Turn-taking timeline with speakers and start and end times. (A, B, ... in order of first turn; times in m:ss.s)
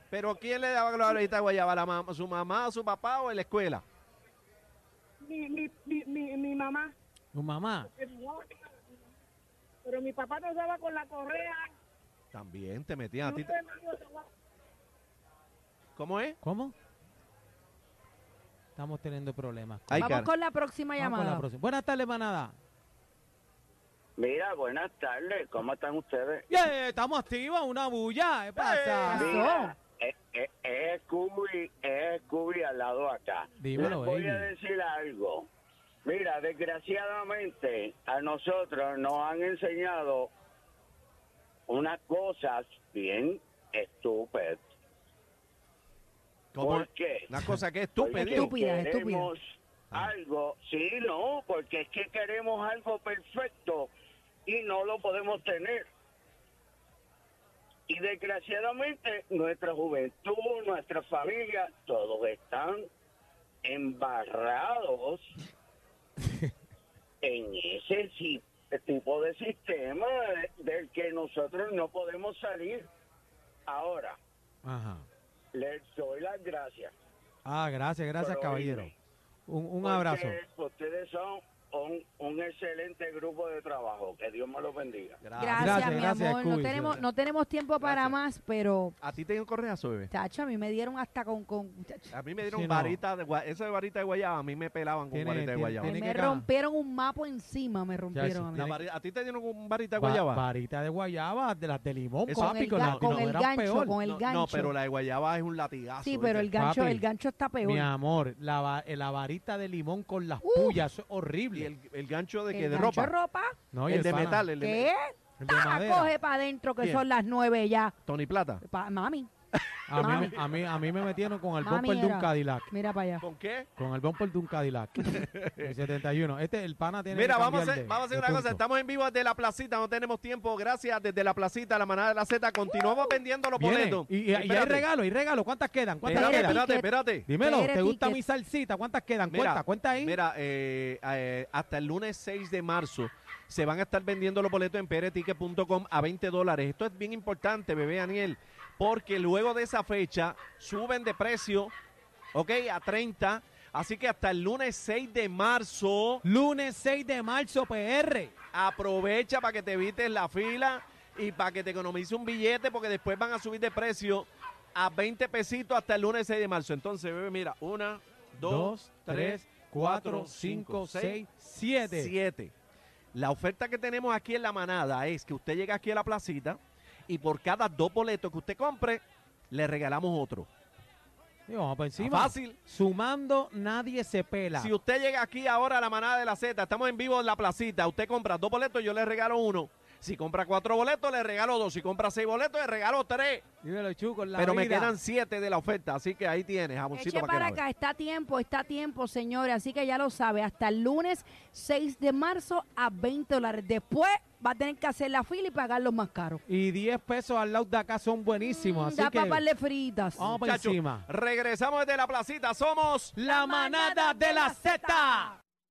0:00.1-0:03.8 A
0:05.2-0:06.9 B
0:07.3-0:07.9 C
0:07.9-0:08.6 B
0:09.8-0:11.7 B
0:12.3-0:13.6 A
0:13.2-0:14.3 B
0:16.0-0:16.4 A
0:16.4-0:16.8 C
0:18.8-0:20.1 C
0:19.9-0:20.3 A
0:20.0-0:21.4 D
0:21.0-0:22.6 C
0:24.2-0:26.4 E
0:26.5-0:29.5 C
0:28.6-0:29.2 A
0:29.1-0:29.7 D
0:29.2-0:35.5 E
0:33.6-0:34.5 C
0:36.0-0:40.3 E
0:41.7-0:44.6 E
0:46.5-0:48.6 A
0:46.6-0:47.3 E
0:48.0-0:49.4 E
0:48.2-0:49.3 D
0:50.0-0:53.9 E
0:54.5-0:55.9 E
0:57.9-1:02.9 E
1:03.6-1:05.2 E
1:07.2-1:12.9 E
1:13.7-1:14.2 E
1:14.6-1:15.1 C
1:15.5-1:16.9 E
1:17.4-1:18.9 C
1:18.2-1:18.9 E
1:19.5-1:20.4 C
1:19.8-1:25.2 E
1:25.2-1:26.1 A
1:25.4-1:29.0 D
1:25.6-1:27.0 C
1:27.8-1:28.2 A
1:29.0-1:30.1 A
1:30.1-1:32.2 D
1:32.1-1:35.9 A
1:32.4-1:33.0 C
1:35.1-1:36.5 C
1:35.8-1:38.8 D
1:38.2-1:38.7 C
1:38.6-1:40.4 A
1:40.0-1:44.0 C
1:42.3-1:43.3 A
1:42.4-1:44.8 D
1:44.0-1:46.5 A
1:46.0-1:47.9 D
1:46.6-1:47.0 C
1:47.6-1:51.7 C
1:50.4-1:50.8 D
1:51.5-1:53.1 A
1:52.5-1:53.6 D
1:53.7-1:54.5 C
1:53.9-1:54.9 A
1:54.6-1:58.0 D
1:55.4-1:56.1 C
1:56.8-1:57.0 A
1:58.0-1:58.6 A
1:58.6-1:59.3 D
1:59.7-2:00.4 A
1:59.9-2:02.7 C
2:00.0-2:00.4 D
2:01.6-2:03.2 D
2:03.2-2:03.7 A
2:03.8-2:08.6 C
2:05.0-2:05.8 A
2:07.1-2:14.9 A
2:13.6-2:16.6 C
2:16.0-2:18.2 D
2:16.1-2:17.3 A
2:17.3-2:20.2 C
2:19.3-2:31.7 A
2:32.4-2:36.2 A
2:36.2-2:38.3 C
2:38.5-2:51.2 A
2:48.4-2:52.1 C
2:51.9-2:52.5 A
2:53.1-3:00.5 A
3:01.5-3:04.7 C
3:02.0-3:02.6 A
3:04.6-3:13.4 A
3:13.6-3:15.0 C
3:14.4-3:17.6 A
3:16.9-3:26.4 D
3:26.5-3:29.4 C
3:28.3-3:30.2 D
3:30.2-3:31.1 C
3:30.2-3:33.1 A
3:33.2-3:35.4 C
3:33.2-3:35.4 D